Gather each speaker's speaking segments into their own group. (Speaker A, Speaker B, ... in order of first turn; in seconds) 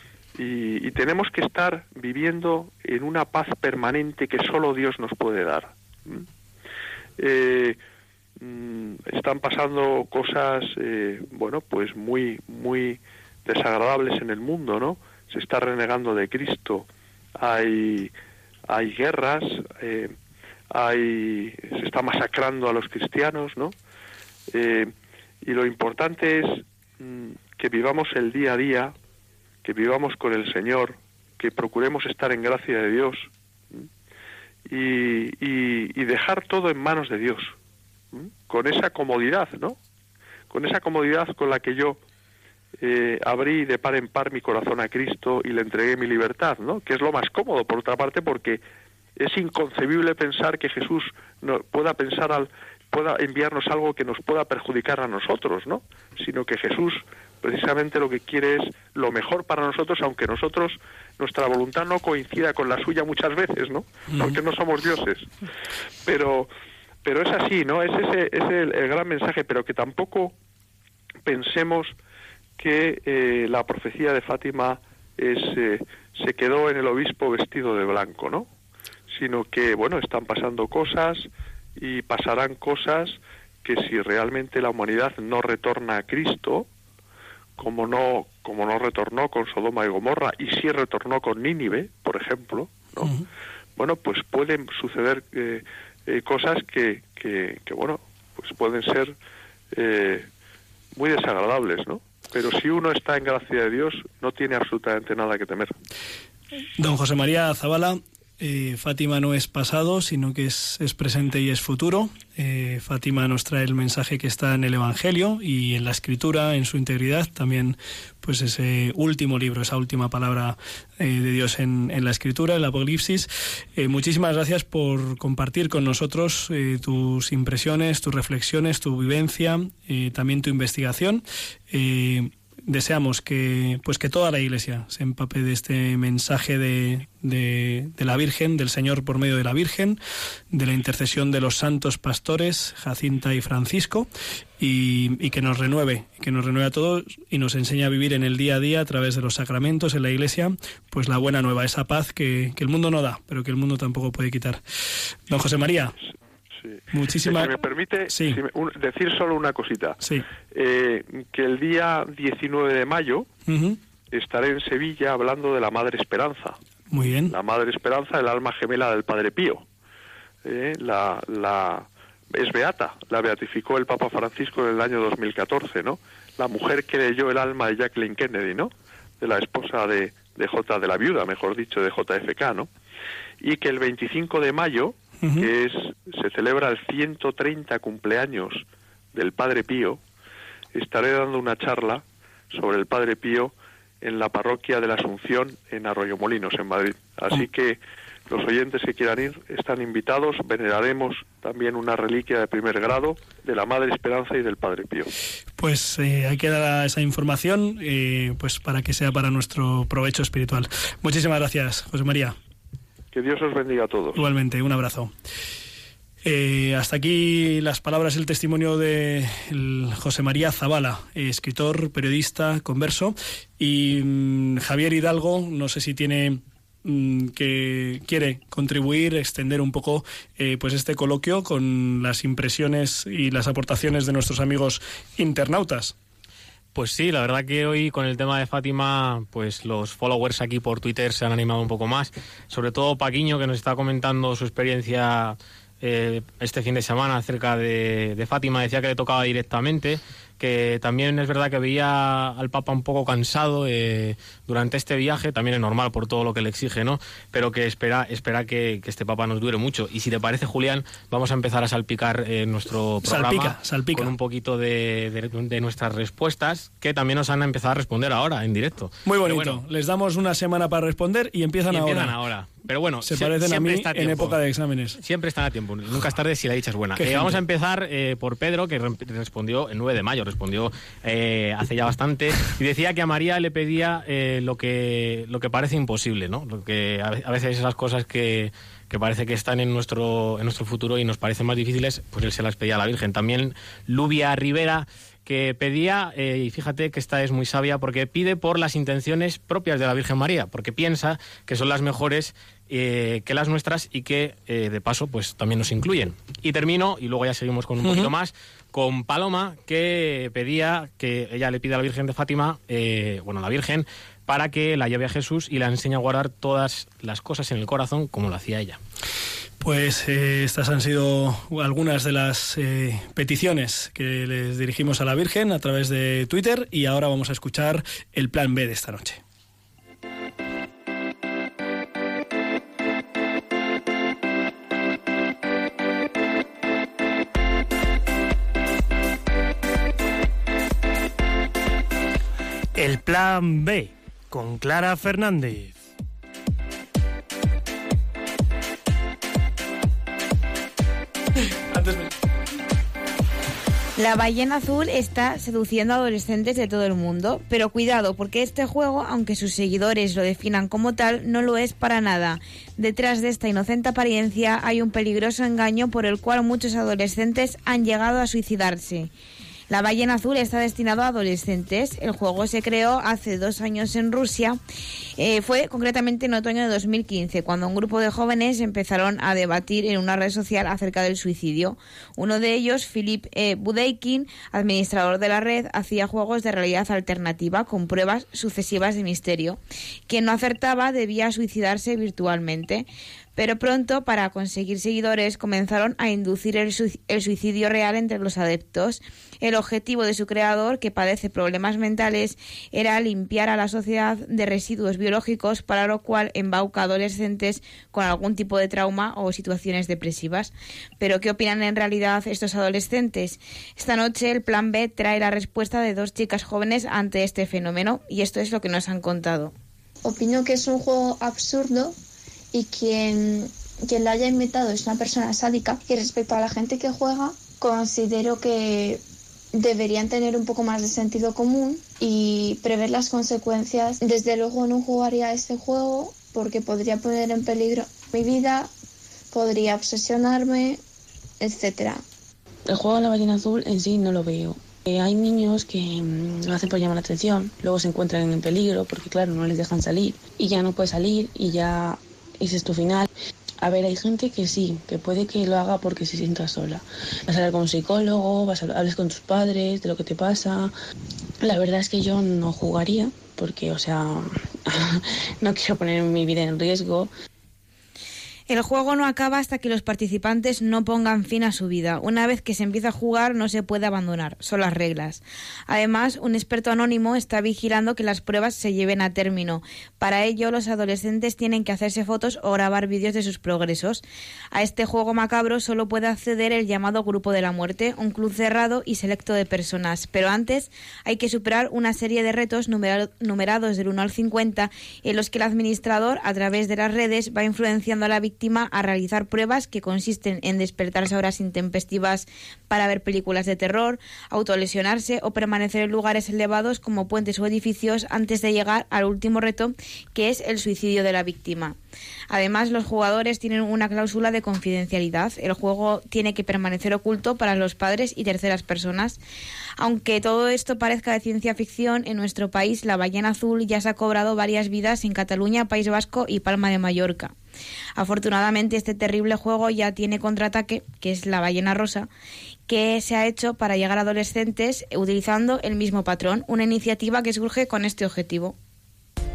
Speaker A: 0.4-6.3, 7.2-7.8, 8.4-16.9, 17.4-18.1, 18.7-20.1, 20.7-23.7, 24.5-28.9, 29.6-33.9, 34.7-37.6, 38.1-39.8, 40.5-42.0, 42.8-48.6, 49.2-65.3, 66.0-66.5, 67.0-70.3, 71.2-72.0, 72.6-78.5, 79.1-86.7, 87.6-93.1, 93.8-99.2, 99.7-100.3, 101.0-105.7, 156.6-160.0, 160.5-163.3, 164.1-166.6, 167.3-169.6, 170.4-182.7, 183.4-190.0, 190.8-205.1, 213.1-214.2
Speaker B: 106.8-140.0, 140.5-144.1, 144.6-154.6, 155.3-156.0, 156.9-157.5, 158.1-158.4, 163.5-163.8, 166.9-167.3, 185.2-185.5, 205.6-212.4, 214.2-215.1, 216.2-235.9, 263.0-264.1, 269.1-272.2, 273.0-275.0, 277.0-277.4, 307.8-308.1, 319.6-329.2, 351.7-352.1
Speaker C: 236.7-269.6, 271.7-274.4, 275.0-318.8
Speaker D: 342.8-345.8
Speaker E: 354.0-369.1, 369.7-374.6, 375.2-419.5, 468.5-511.8, 512.3-519.2, 519.8-527.3, 528.0-532.1, 532.7-538.5
Speaker F: 420.0-422.0, 422.5-429.0, 429.5-438.7, 439.3-440.8, 441.4-442.0
Speaker G: 442.7-453.1, 453.6-460.7, 461.4-467.1